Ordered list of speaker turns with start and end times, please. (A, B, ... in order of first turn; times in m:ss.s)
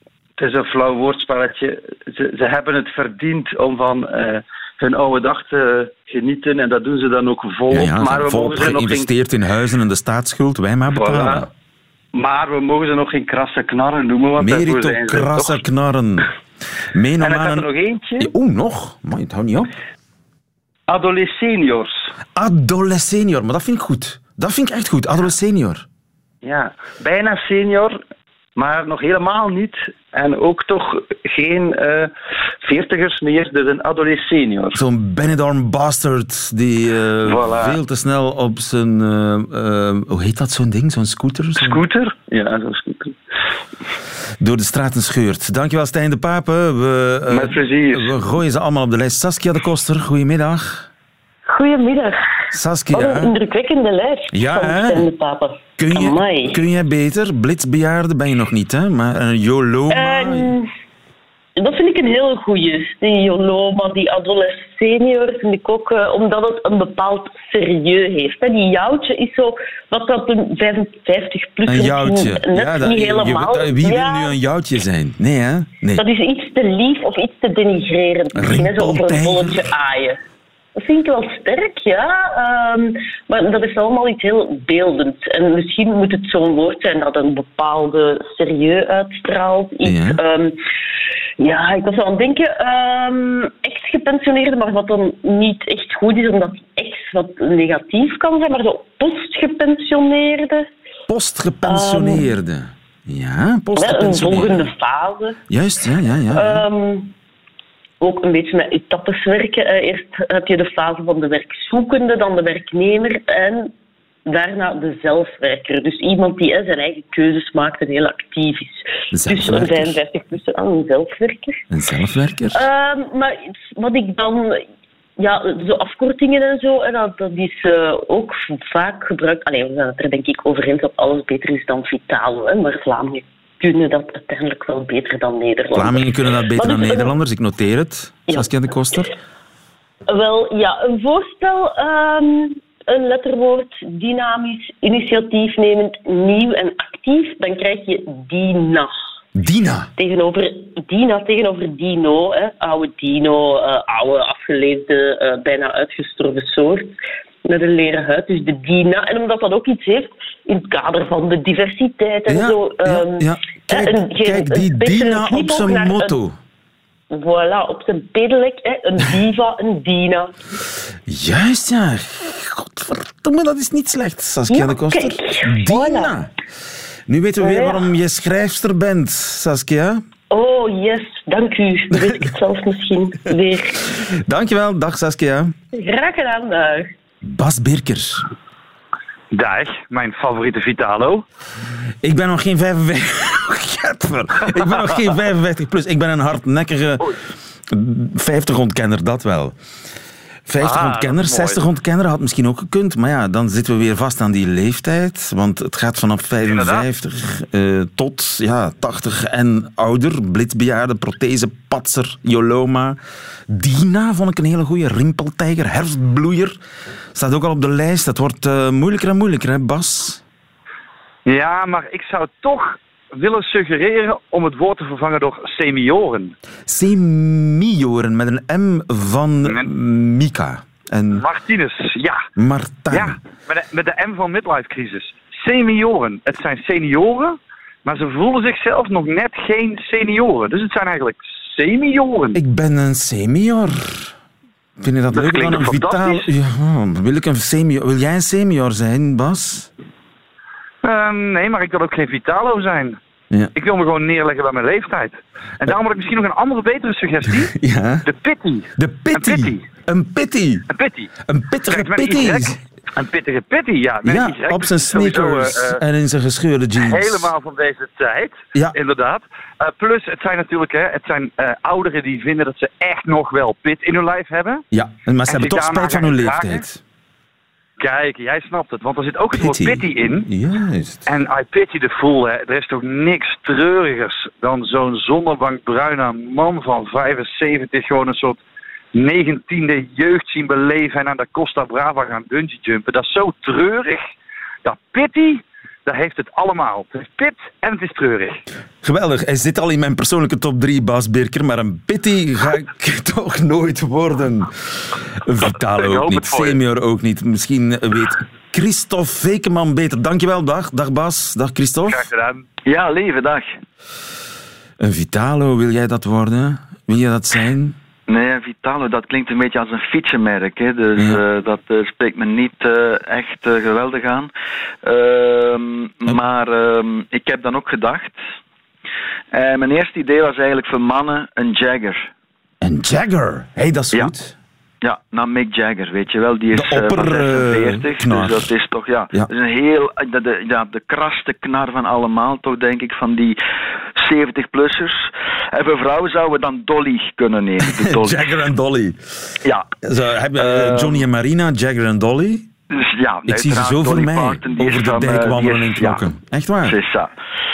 0:00.4-0:09.1 A
0:07.7-0:11.5 B
0:10.9-0:11.5 A
0:12.1-0:15.6 A
0:14.4-0:16.3 B
0:16.9-0:19.7 B
0:17.2-0:18.3 A
0:20.9-0:22.1 A
0:22.3-0:25.8 B
0:26.4-0:28.0 A
0:28.6-0:32.1 A
0:32.6-0:34.8 A
0:34.7-0:41.8 B
0:37.2-0:37.8 A
0:41.6-0:43.2 A
0:44.4-0:50.9 B
0:47.3-0:48.1 A
0:51.5-0:52.2 C
0:52.5-0:53.3 B
0:52.9-0:56.6 C
0:54.3-0:55.0 B
0:55.8-1:00.5 B
0:59.9-1:00.7 C
1:01.6-1:14.3 C
1:11.6-1:16.0 B
1:16.0-1:20.2 C
1:18.4-1:19.7 B
1:20.8-1:30.5 C
1:29.8-1:30.2 B
1:31.4-1:40.7 C
1:41.1-1:44.7 B
1:41.6-1:42.2 C
1:43.8-1:45.4 C
1:45.5-1:46.6 B
1:46.3-1:47.1 C
1:48.0-1:53.7 C
1:54.2-2:01.6 C
1:59.1-1:59.9 B
2:01.7-2:02.6 B
2:02.5-2:04.6 C
2:05.2-2:17.1 C
2:15.7-2:19.1 B
2:20.1-2:28.9 C
2:29.4-2:29.9 B
2:30.0-2:36.9 C
2:37.4-2:46.2 C
2:42.3-2:46.4 B
2:47.1-2:50.3 C
2:51.1-2:56.3 B
2:54.5-2:56.1 C
2:57.1-3:00.0 B
2:57.4-2:57.8 C
3:00.3-3:03.9 C
3:04.2-3:05.5 B
3:05.7-3:06.9 C
3:07.2-3:08.2 B
3:09.3-3:11.2 D
3:12.0-3:17.2 B
3:17.7-3:19.6 B
3:20.5-3:36.6 B
3:20.6-3:21.6 D
3:26.5-3:26.8 D
3:37.1-3:40.2 B
3:41.2-3:46.3 D
3:46.7-3:51.2 B
3:51.1-3:52.2 D
3:52.4-3:53.2 B
3:52.9-4:02.4 D
4:02.3-4:04.1 B
4:04.8-4:09.7 B
4:05.1-4:06.2 D
4:10.8-4:13.0 D
4:13.5-4:19.6 D
4:17.5-4:18.0 B
4:18.8-4:20.6 B
4:20.7-4:21.1 D
4:21.2-4:22.6 B
4:21.7-4:25.8 D
4:24.0-4:27.3 B
4:26.8-4:34.6 D
4:34.7-4:36.8 B
4:35.3-4:36.6 D
4:37.8-4:40.2 D
4:39.3-4:41.0 B
4:41.0-4:48.4 D
4:48.9-4:54.0 D
4:54.6-4:58.4 D
4:58.8-5:12.0 B
5:05.8-5:06.6 D
5:11.9-5:12.4 D
5:12.6-5:13.5 E
5:14.8-5:17.8 B
5:18.1-5:24.3 E
5:24.8-5:28.2 E
5:29.3-5:32.1 E
5:32.6-5:34.3 B
5:34.8-5:43.4 E
5:36.5-5:38.5 B
5:44.0-5:48.2 E
5:47.6-5:52.5 B
5:50.4-5:51.0 E
5:52.7-5:56.0 E
5:53.3-5:56.8 B
5:56.6-5:57.1 E